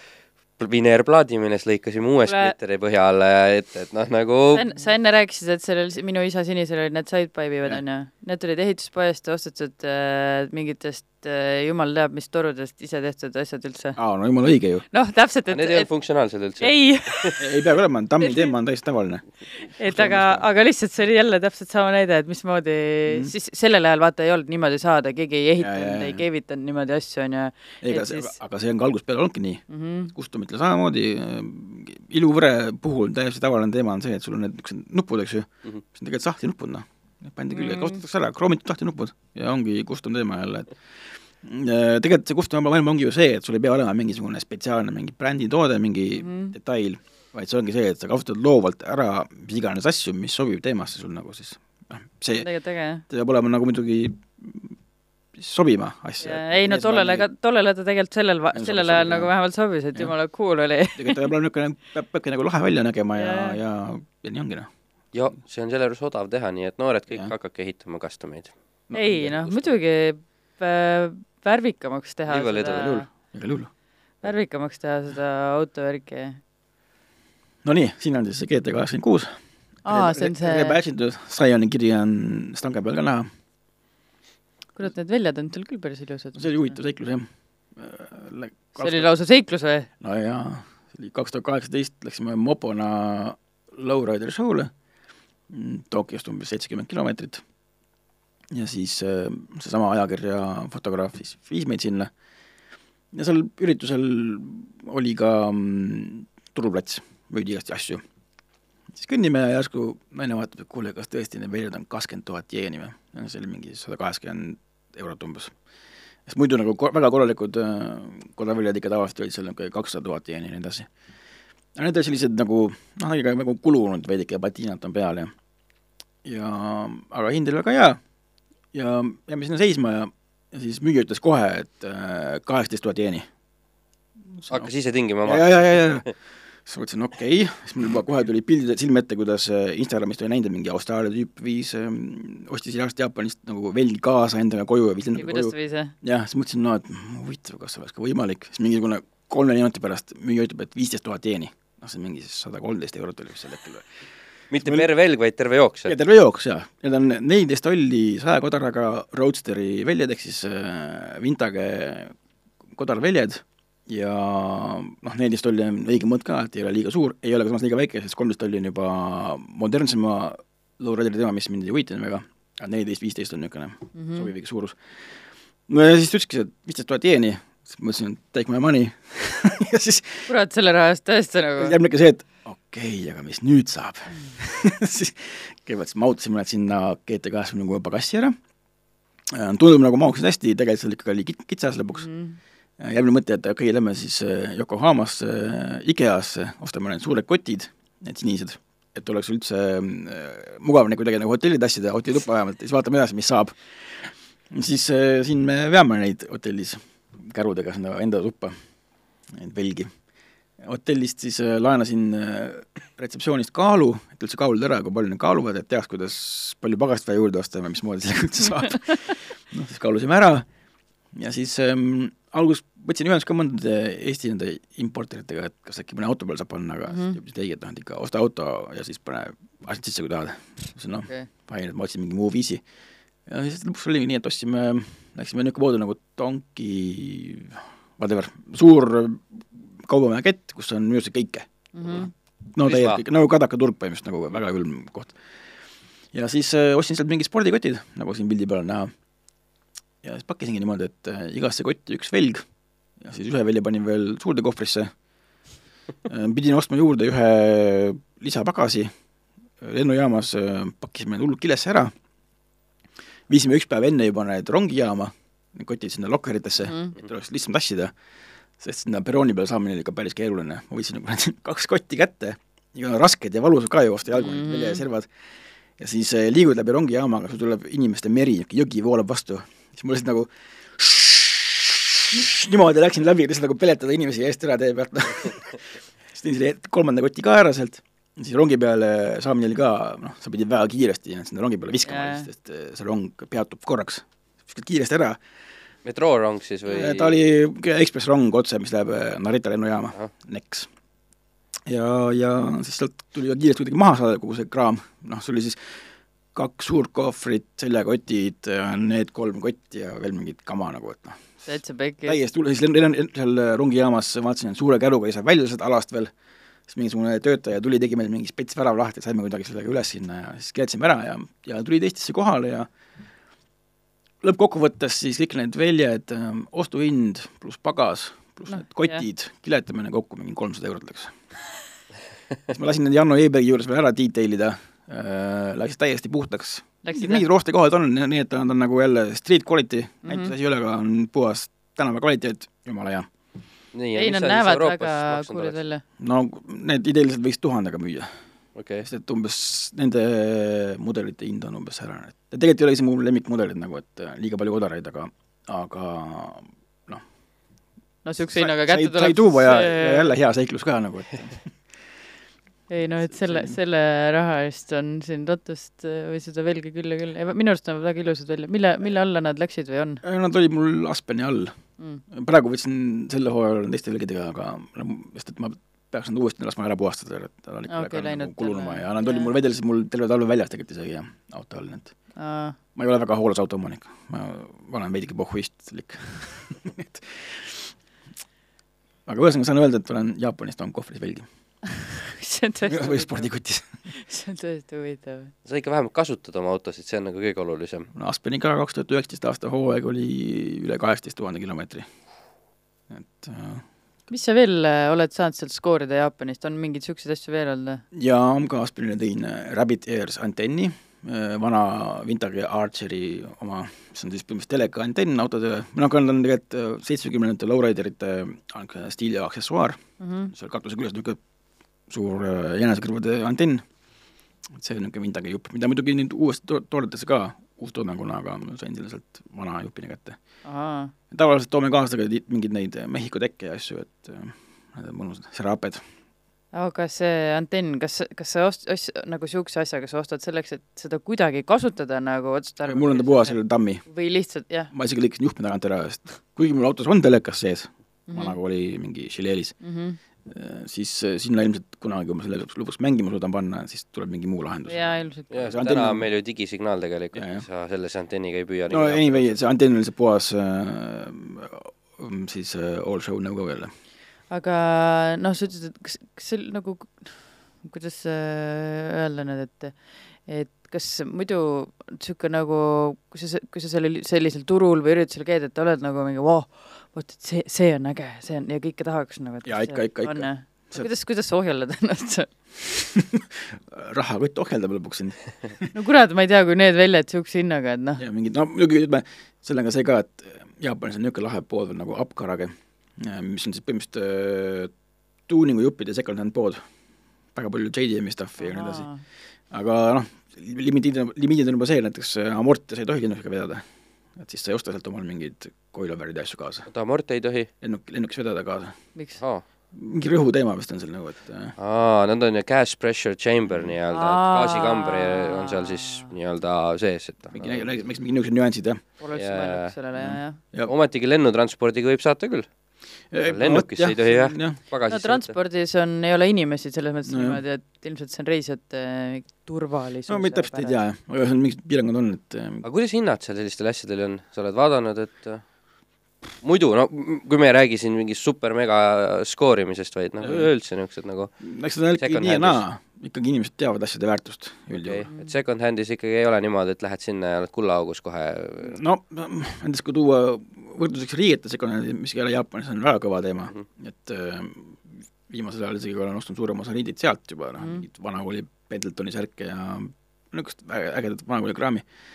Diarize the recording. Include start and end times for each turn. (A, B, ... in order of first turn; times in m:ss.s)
0:00.6-0:04.6 A
0:02.2-0:02.5 B
0:04.5-0:14.0 B
0:14.0-0:14.8 C
0:14.9-0:15.9 B
0:15.5-0:17.3 A
0:16.6-0:17.4 B
0:17.4-0:19.3 C
0:18.2-0:18.6 B
0:19.5-0:28.4 B
0:19.8-0:20.4 C
0:23.0-0:23.3 C
0:25.6-0:26.2 C
0:27.8-0:52.5 C
0:29.7-0:30.1 B
0:37.5-0:38.0 B
0:46.2-0:46.6 B
0:52.4-0:53.0 B
0:53.1-0:54.8 C
0:55.4-0:57.3 C
0:56.2-1:01.3 B
0:58.5-0:59.3 C
1:01.0-1:04.7 C
1:03.2-1:03.6 B
1:05.1-1:08.5 A
1:08.9-1:09.5 C
1:08.9-1:13.1 B
1:12.3-1:13.0 A
1:12.8-1:13.7 C
1:14.2-1:16.4 B
1:17.6-1:23.3 C
1:19.8-1:20.8 B
1:24.8-1:26.7 B
1:26.4-1:29.1 C
1:28.7-1:29.9 B
1:30.0-1:34.7 C
1:35.5-1:37.4 C
1:38.5-1:42.1 C
1:43.1-1:48.0 C
1:48.9-1:55.5 C
1:56.3-2:00.9 C
2:01.8-2:05.3 C
2:06.2-2:08.0 C
2:08.7-2:13.3 C
2:14.3-2:14.7 C
2:14.5-2:16.0 A
2:15.2-2:16.1 C
2:16.6-2:33.9 C
2:25.2-2:25.9 B
2:34.5-2:36.0 A
2:34.5-2:34.9 C
2:35.9-2:42.2 C
2:42.7-3:00.3 C
2:53.9-2:54.3 B
3:00.3-3:01.8 B
3:01.6-3:08.4 C
3:04.1-3:04.4 B
3:09.3-3:12.1 C
3:12.0-3:12.4 B
3:12.8-3:28.6 C
3:29.3-3:29.9 C
3:30.6-3:40.5 C
3:41.1-3:52.6 C
3:46.9-3:47.2 B
3:53.3-4:02.0 C
4:01.7-4:02.1 B
4:02.5-4:05.2 C
4:02.6-4:03.0 A
4:06.1-4:08.9 C
4:10.0-4:12.5 C
4:13.0-4:14.9 C
4:16.0-4:18.9 C
4:19.6-4:21.9 C
4:23.3-4:27.9 C
4:26.7-4:27.0 B
4:28.6-4:35.1 C
4:34.1-4:34.8 B
4:35.8-4:55.2 C
4:51.9-4:52.3 B
4:55.8-4:57.2 A
4:56.7-5:00.7 C
5:01.7-5:11.5 C
5:11.5-5:12.2 B
5:12.1-5:16.1 C
5:16.7-5:22.7 C
5:24.2-5:31.1 C
5:28.5-5:29.1 B
5:32.5-5:43.1 C
5:36.8-5:37.3 B
5:40.0-5:40.3 B
5:43.7-5:45.6 A
5:44.0-5:45.8 B
5:46.0-5:48.1 C
5:48.6-5:48.9 A
5:48.8-5:57.0 C
5:58.0-6:00.1 B
5:58.3-6:01.7 C
6:02.7-6:10.0 B
6:03.0-6:03.6 C
6:10.0-6:11.6 C
6:12.1-6:22.0 C
6:17.7-6:19.3 B
6:22.2-6:22.6 B
6:22.8-6:27.8 C
6:29.1-6:31.3 C
6:32.2-6:33.3 B
6:32.7-6:33.7 C
6:33.9-6:35.3 B
6:35.4-6:37.9 A
6:37.9-6:41.9 C
6:42.9-6:43.6 C
6:44.1-6:47.8 B
6:47.9-6:59.8 C
7:00.0-7:00.3 B
7:00.3-7:01.2 C
7:01.9-7:03.6 C
7:04.6-7:10.2 C
7:10.4-7:10.9 B
7:11.1-7:15.8 C
7:16.5-7:24.7 B
7:22.6-7:23.9 C
7:24.7-7:29.6 C
7:28.1-7:28.4 B
7:29.6-7:30.0 B
7:30.2-7:36.1 C
7:34.7-7:35.6 B
7:35.3-7:39.4 A
7:37.1-7:37.4 C
7:38.7-7:43.7 C
7:44.3-8:02.3 B
7:59.4-8:00.9 C
8:02.6-8:05.7 C
8:05.7-8:08.0 B
8:08.0-8:14.7 C
8:15.3-8:16.6 C
8:17.3-8:18.9 C
8:18.4-8:19.0 B
8:19.5-8:26.7 C
8:26.7-8:27.5 A
8:27.6-8:28.8 C
8:29.2-8:29.4 A
8:29.7-8:31.5 C
8:31.6-8:37.7 A
8:33.9-8:36.1 B
8:37.3-8:38.8 C
8:39.0-8:40.4 B
8:39.2-8:39.8 A
8:40.0-8:40.7 C
8:40.6-8:42.6 A
8:43.1-8:44.6 C
8:43.2-8:45.3 A
8:44.9-8:50.8 B
8:47.1-8:47.4 C
8:50.1-8:52.6 C
8:52.6-8:55.5 A
8:56.4-9:01.3 A
9:00.2-9:00.5 C
9:01.4-9:05.1 C
9:02.0-9:02.6 A
9:04.8-9:08.8 A
9:05.1-9:05.4 B
9:08.6-9:21.9 C
9:17.6-9:17.8 B